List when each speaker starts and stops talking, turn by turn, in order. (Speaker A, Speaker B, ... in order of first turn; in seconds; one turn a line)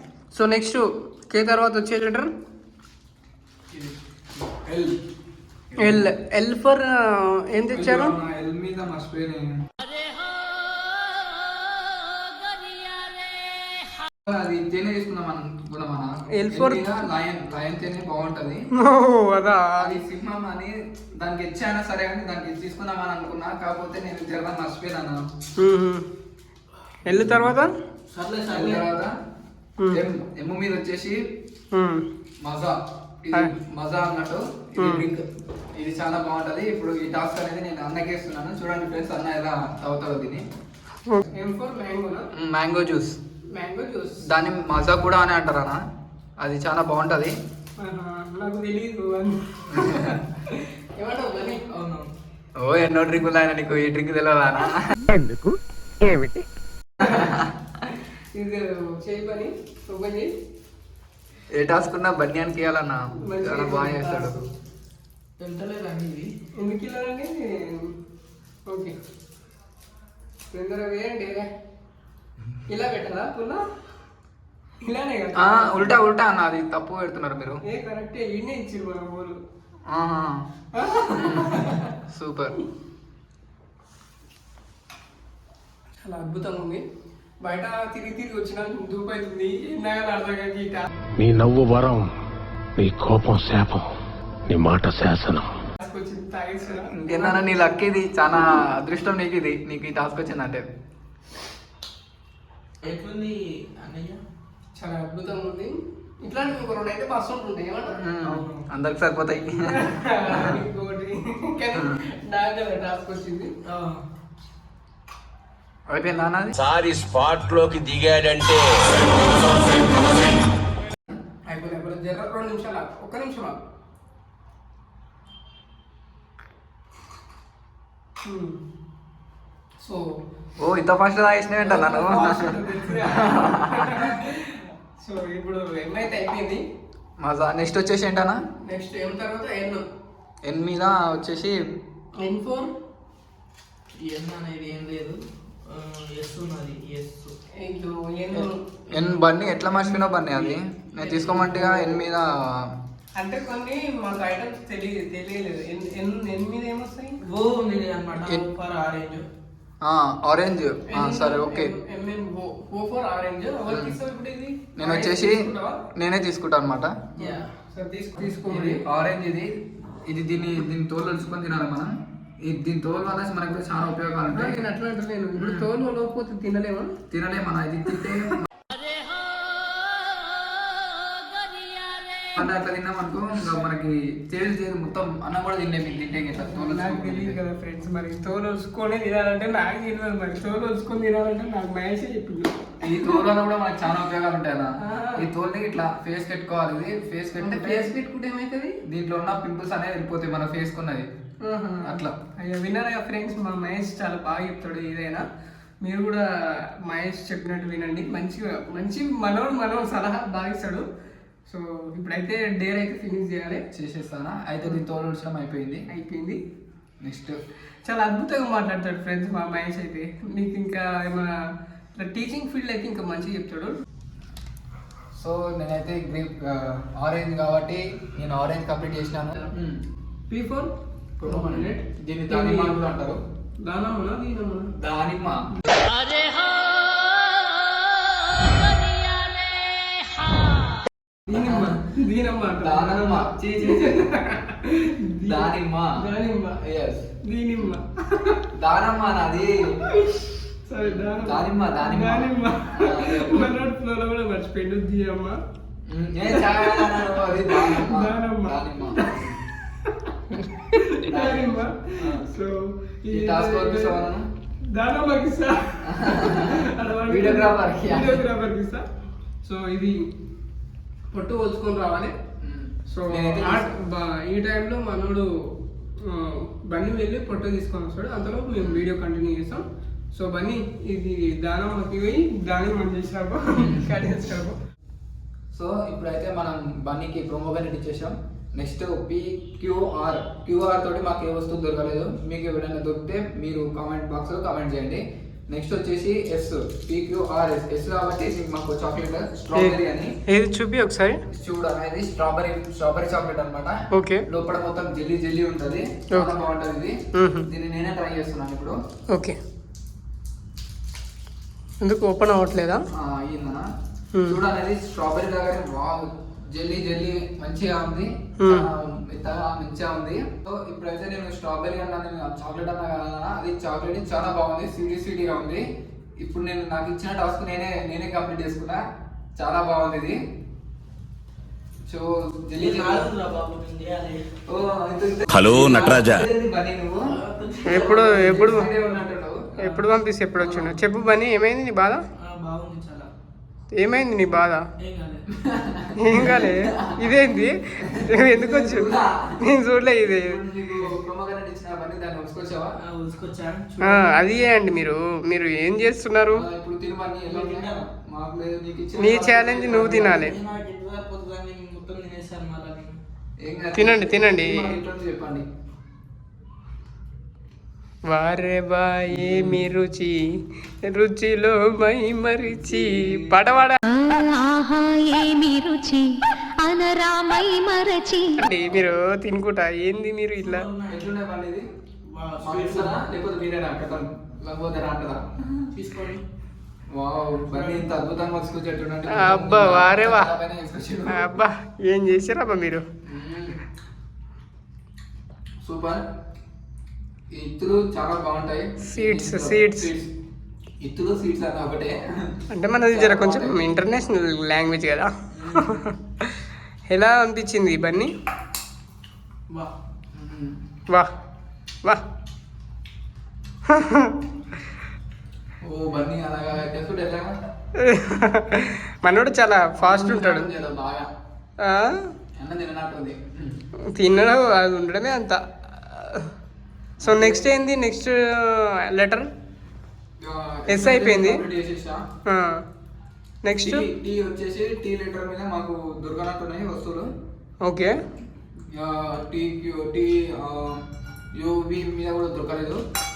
Speaker A: 0.3-2.3
Speaker B: 3.7-5.0
Speaker B: 5.7-6.1
Speaker A: 5.8-8.1
Speaker B: 7.7-9.6
Speaker B: 14.2-18.6
Speaker A: 16.4-16.8
Speaker A: 18.8-20.0
Speaker B: 19.8-25.2
Speaker A: 25.6-26.1
Speaker A: 27.1-27.7
Speaker B: 27.1-27.6
Speaker C: 28.1-28.9
Speaker B: 28.5-29.1
Speaker B: 29.9-31.2
Speaker A: 31.7-32.0
Speaker B: 32.4-35.2
Speaker A: 34.8-35.0
Speaker B: 35.8-40.4
Speaker A: 41.1-42.3
Speaker B: 42.4-43.2
Speaker A: 43.5-44.2
Speaker B: 44.3-45.8
Speaker B: 46.4-47.3
Speaker A: 47.8-51.6
Speaker B: 49.7-50.2
Speaker C: 51.7-52.1
Speaker B: 52.6-55.0
Speaker B: 57.0-57.5
Speaker A: 57.0-57.3
Speaker A: 58.3-60.3
Speaker B: 61.5-64.4
Speaker A: 63.3-64.4
Speaker C: 65.4-66.3
Speaker A: 66.6-67.9
Speaker A: 68.7-68.9
Speaker A: 70.5-71.5
Speaker A: 72.7-73.6
Speaker A: 74.8-76.0
Speaker B: 75.4-77.6
Speaker A: 77.7-79.4
Speaker B: 79.9-80.5
Speaker A: 80.7-81.9
Speaker B: 81.1-82.5
Speaker A: 86.0-86.8
Speaker A: 87.4-90.9
Speaker D: 91.2-92.1
Speaker D: 92.8-93.9
Speaker D: 94.5-95.5
Speaker A: 95.8-97.4
Speaker B: 96.8-100.6
Speaker C: 102.8-104.2
Speaker A: 104.8-108.0
Speaker B: 107.9-110.6
Speaker C: 108.2-108.6
Speaker A: 109.6-113.5
Speaker C: 113.7-114.0
Speaker B: 115.9-116.5
Speaker E: 116.5-120.4
Speaker A: 121.5-123.5
Speaker A: 128.2-128.6
Speaker B: 130.6-134.1
Speaker A: 131.6-136.6
Speaker B: 137.2-138.4
Speaker A: 138.6-139.8
Speaker B: 140.4-141.6
Speaker A: 142.2-142.7
Speaker C: 144.0-145.2
Speaker C: 145.7-147.3
Speaker A: 147.6-148.5
Speaker B: 148.3-152.7
Speaker C: 149.9-152.0
Speaker A: 153.2-157.2
Speaker C: 157.3-159.2
Speaker B: 159.8-161.7
Speaker A: 160.9-165.8
Speaker B: 163.7-163.9
Speaker B: 164.8-166.9
Speaker C: 167.2-167.5
Speaker A: 167.2-168.8
Speaker B: 168.4-169.5
Speaker B: 170.1-174.6
Speaker A: 174.3-176.9
Speaker B: 175.3-175.7
Speaker B: 177.1-178.5
Speaker B: 182.3-187.4
Speaker A: 186.4-193.2
Speaker B: 192.8-197.9
Speaker A: 194.8-195.2
Speaker A: 197.4-198.8
Speaker B: 198.9-201.1
Speaker A: 201.4-205.2
Speaker B: 201.8-202.1
Speaker A: 205.8-206.2
Speaker A: 206.9-210.8
Speaker A: 211.5-213.6
Speaker B: 213.7-215.8
Speaker A: 215.9-216.4
Speaker B: 217.0-217.3
Speaker A: 217.8-221.3
Speaker A: 222.0-223.8
Speaker B: 225.1-229.8
Speaker A: 230.3-230.7
Speaker B: 231.2-233.2
Speaker A: 231.2-232.8
Speaker A: 233.6-234.7
Speaker B: 234.8-235.5
Speaker B: 241.3-241.8
Speaker A: 241.3-246.6
Speaker B: 242.5-244.0
Speaker B: 245.2-245.9
Speaker B: 246.6-247.1
Speaker A: 247.2-248.4
Speaker B: 248.5-249.6
Speaker A: 249.8-255.4
Speaker B: 250.8-253.6
Speaker B: 255.9-259.4
Speaker A: 256.3-259.2
Speaker A: 259.8-260.1
Speaker A: 260.7-264.0
Speaker B: 260.9-262.3
Speaker B: 263.1-264.2
Speaker A: 264.7-268.8
Speaker B: 265.8-268.2
Speaker A: 269.4-270.0
Speaker A: 271.1-272.1
Speaker B: 272.4-273.7
Speaker A: 272.9-275.2
Speaker A: 276.1-279.6
Speaker B: 278.6-278.8
Speaker A: 280.1-284.6
Speaker B: 283.5-284.0
Speaker B: 285.5-300.1
Speaker A: 299.5-301.2
Speaker B: 301.3-306.9
Speaker A: 303.9-304.2
Speaker A: 307.1-307.5
Speaker B: 307.5-308.8
Speaker A: 311.8-312.8
Speaker B: 312.9-313.6
Speaker B: 314.2-325.6
Speaker A: 318.4-318.7
Speaker B: 326.2-328.8
Speaker B: 329.4-330.2
Speaker B: 331.9-333.1
Speaker C: 332.6-334.2
Speaker B: 334.5-337.1
Speaker E: 335.3-336.2
Speaker C: 337.0-338.3
Speaker B: 337.7-339.8
Speaker A: 337.7-338.7
Speaker A: 339.6-342.0
Speaker B: 340.4-340.7
Speaker C: 342.2-343.1
Speaker A: 343.8-344.6
Speaker C: 344.8-345.2
Speaker B: 345.4-347.3
Speaker A: 346.0-348.9
Speaker B: 347.8-352.8
Speaker A: 349.4-350.4
Speaker C: 352.8-354.2
Speaker A: 353.9-356.4
Speaker B: 356.3-360.2
Speaker C: 357.3-357.8
Speaker A: 359.0-360.3
Speaker C: 359.7-363.0
Speaker B: 363.4-365.4
Speaker A: 363.7-364.7
Speaker A: 368.1-370.2
Speaker B: 369.1-369.7
Speaker A: 370.8-373.8
Speaker B: 372.7-373.4
Speaker F: 373.9-376.1
Speaker F: 376.6-378.4
Speaker A: 378.4-380.6
Speaker C: 380.4-381.1
Speaker B: 380.9-381.6
Speaker C: 382.1-383.0
Speaker B: 382.4-385.7
Speaker C: 385.7-386.2
Speaker B: 386.9-391.4
Speaker C: 387.5-387.8
Speaker A: 389.1-390.3
Speaker A: 391.1-392.8
Speaker B: 393.0-393.6
Speaker B: 395.6-396.0
Speaker B: 397.3-400.1
Speaker A: 398.9-399.9
Speaker B: 400.8-402.3
Speaker A: 402.5-406.3
Speaker B: 402.9-403.6
Speaker B: 405.3-405.8
Speaker A: 406.9-408.1
Speaker B: 410.1-410.6
Speaker A: 413.7-414.2
Speaker B: 415.6-417.3
Speaker A: 417.8-420.5
Speaker B: 419.8-421.1
Speaker A: 421.6-422.0
Speaker B: 422.4-423.6
Speaker A: 423.9-426.3
Speaker B: 427.0-427.5
Speaker A: 427.0-429.3
Speaker B: 430.2-432.0
Speaker A: 430.7-431.4
Speaker A: 432.3-432.6
Speaker A: 433.4-433.9
Speaker B: 433.6-437.1
Speaker A: 437.6-437.9
Speaker B: 438.7-440.8
Speaker B: 441.3-442.8